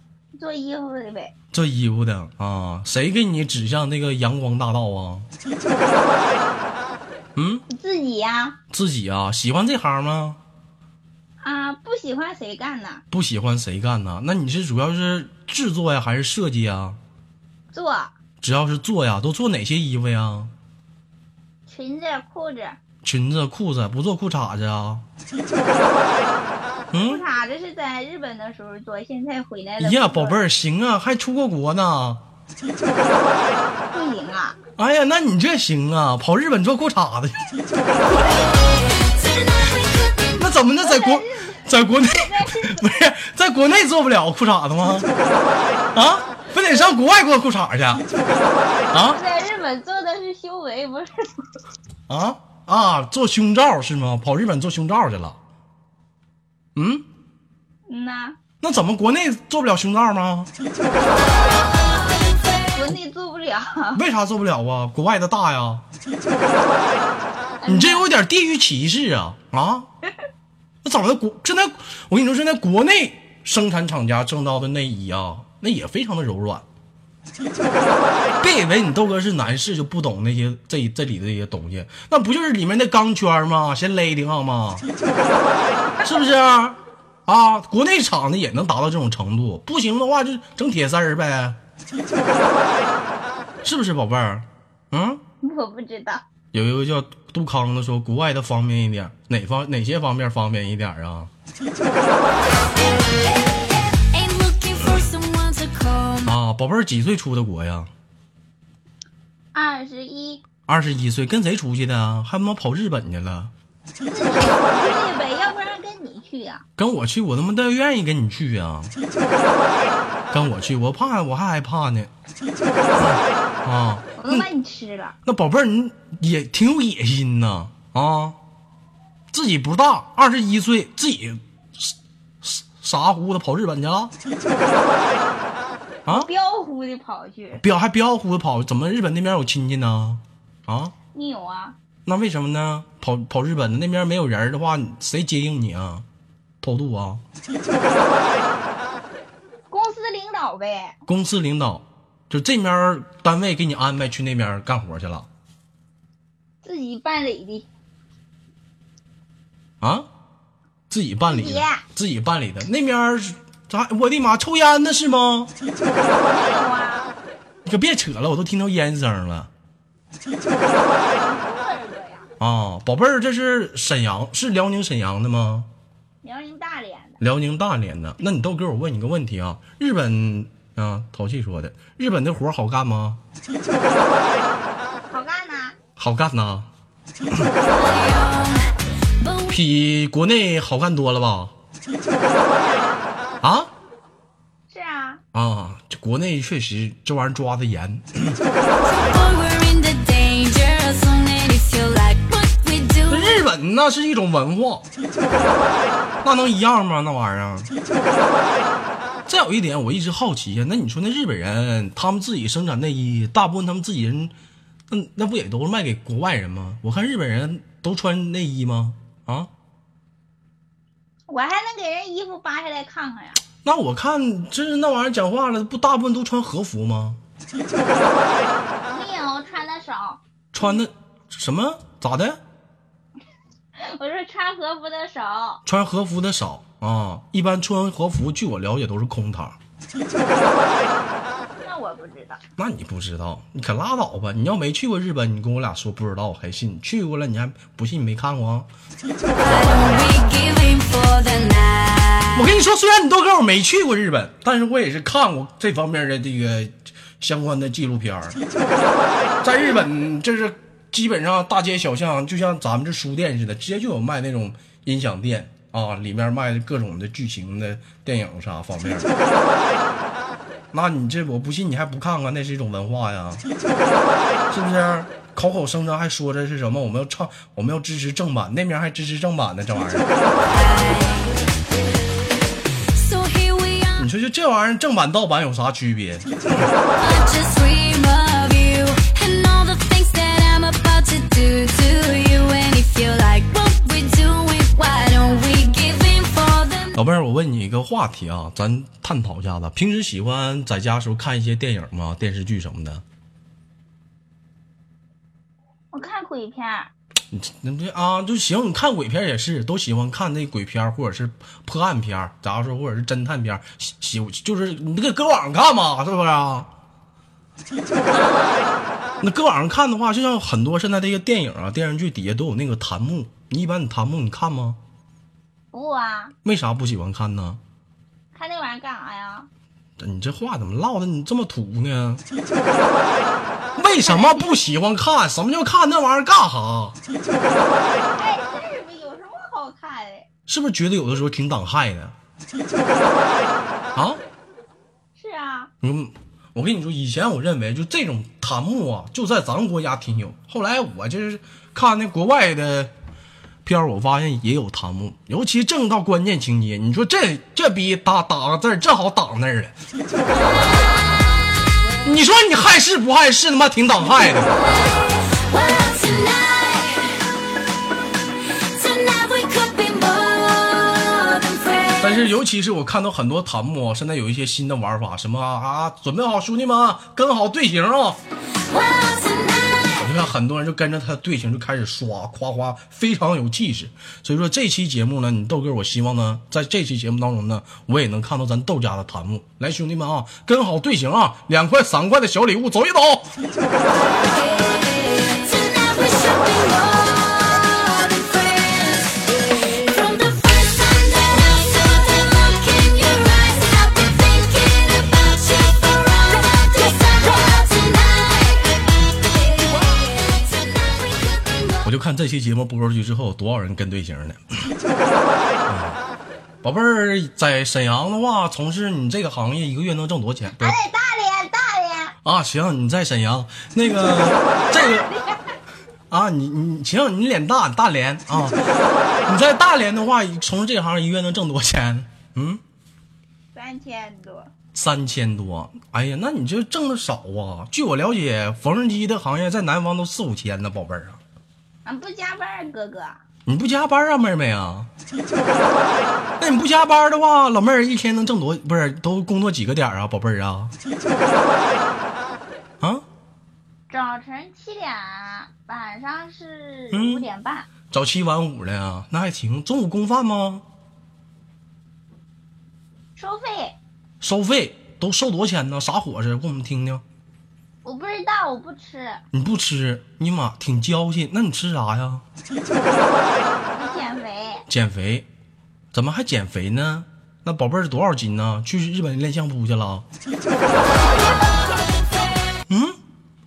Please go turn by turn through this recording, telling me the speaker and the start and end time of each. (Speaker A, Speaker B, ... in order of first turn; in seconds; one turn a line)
Speaker A: 0.3-1.3
Speaker B: 1.5-5.3
Speaker B: 7.3-7.6
Speaker A: 7.7-8.6
Speaker B: 8.7-10.4
Speaker A: 11.4-13.0
Speaker B: 13.1-17.0
Speaker A: 17.7-18.1
Speaker B: 18.4-20.5
Speaker A: 21.7-22.8
Speaker B: 23.0-25.0
Speaker B: 26.9-27.2
Speaker A: 26.9-30.4
Speaker B: 29.8-32.2
Speaker A: 33.9-34.6
Speaker B: 34.8-37.4
Speaker B: 40.4-45.1
Speaker A: 40.7-42.8
Speaker B: 45.9-48.0
Speaker B: 48.9-49.2
Speaker A: 49.0-51.3
Speaker B: 52.1-55.4
Speaker B: 56.7-57.0
Speaker A: 57.9-58.4
Speaker B: 58.6-60.5
Speaker A: 62.7-64.0
Speaker B: 63.9-65.8
Speaker A: 67.6-68.0
Speaker B: 67.7-69.9
Speaker B: 70.8-76.6
Speaker B: 78.4-84.8
Speaker A: 86.0-86.3
Speaker B: 86.0-91.6
Speaker B: 93.6-95.2
Speaker A: 95.4-96.2
Speaker B: 96.5-101.3
Speaker C: 104.1-106.3
Speaker B: 106.2-107.9
Speaker A: 109.5-110.4
Speaker B: 110.7-113.5
Speaker A: 114.0-116.6
Speaker B: 116.8-118.9
Speaker A: 119.7-120.0
Speaker B: 120.3-122.1
Speaker B: 123.0-124.5
Speaker A: 124.2-125.2
Speaker B: 125.2-128.4
Speaker B: 129.3-134.1
Speaker A: 136.1-137.6
Speaker B: 137.6-140.9
Speaker A: 141.1-141.8
Speaker B: 142.1-146.0
Speaker B: 146.6-147.2
Speaker A: 149.7-151.0
Speaker B: 151.1-155.3
Speaker A: 156.6-157.7
Speaker B: 159.8-160.1
Speaker B: 160.9-165.5
Speaker A: 161.2-161.8
Speaker A: 166.2-167.1
Speaker B: 167.6-169.5
Speaker A: 171.2-172.3
Speaker B: 172.4-175.7
Speaker A: 176.2-177.2
Speaker B: 177.2-183.2
Speaker A: 185.1-185.8
Speaker B: 186.0-186.7
Speaker C: 187.7-189.6
Speaker B: 189.5-191.5
Speaker A: 192.4-193.0
Speaker B: 193.4-193.7
Speaker A: 194.7-195.2
Speaker B: 195.3-198.4
Speaker C: 198.8-203.4
Speaker B: 203.1-204.8
Speaker B: 206.2-207.7
Speaker B: 209.3-214.3
Speaker B: 214.9-219.5
Speaker A: 221.3-223.4
Speaker B: 223.6-227.2
Speaker A: 228.9-230.2
Speaker B: 230.5-232.4
Speaker A: 233.8-235.6
Speaker B: 235.7-239.6
Speaker A: 241.6-242.4
Speaker B: 242.6-248.7
Speaker C: 249.3-252.5
Speaker B: 252.3-258.4
Speaker B: 259.4-269.1
Speaker B: 270.7-273.4
Speaker B: 274.5-280.1
Speaker C: 280.4-281.3
Speaker C: 282.9-284.1
Speaker B: 284.0-286.3
Speaker C: 287.0-296.9
Speaker B: 296.9-303.0
Speaker A: 305.9-306.9
Speaker B: 307.3-316.7
Speaker A: 318.1-318.7
Speaker B: 319.2-324.8
Speaker A: 325.7-326.3
Speaker B: 326.4-327.6
Speaker A: 328.3-329.5
Speaker B: 330.0-332.2
Speaker B: 333.8-337.0
Speaker A: 333.9-334.6
Speaker A: 338.1-340.3
Speaker B: 340.5-342.1
Speaker B: 343.9-344.2
Speaker A: 345.1-345.7
Speaker B: 345.8-352.9
Speaker B: 353.6-359.7
Speaker B: 362.0-364.7
Speaker C: 365.3-367.1
Speaker C: 368.6-372.2
Speaker B: 372.0-378.2
Speaker C: 378.7-380.0
Speaker B: 380.0-393.3
Speaker C: 394.1-408.7
Speaker C: 409.4-410.4
Speaker B: 411.8-414.4
Speaker B: 415.6-416.0
Speaker B: 416.6-420.8
Speaker A: 420.5-422.1
Speaker B: 422.2-425.1
Speaker A: 424.8-425.4
Speaker B: 426.1-428.6
Speaker B: 429.2-432.6
Speaker A: 433.5-434.5
Speaker B: 434.7-441.2
Speaker A: 441.8-443.2
Speaker B: 443.4-444.9
Speaker B: 446.4-450.7
Speaker A: 453.9-457.7
Speaker B: 456.9-457.3
Speaker B: 457.9-460.6
Speaker A: 463.1-463.8
Speaker B: 464.2-467.0
Speaker A: 467.8-469.2
Speaker B: 469.3-472.2
Speaker A: 473.7-474.6
Speaker B: 474.7-475.3
Speaker B: 475.9-480.0
Speaker B: 482.7-483.0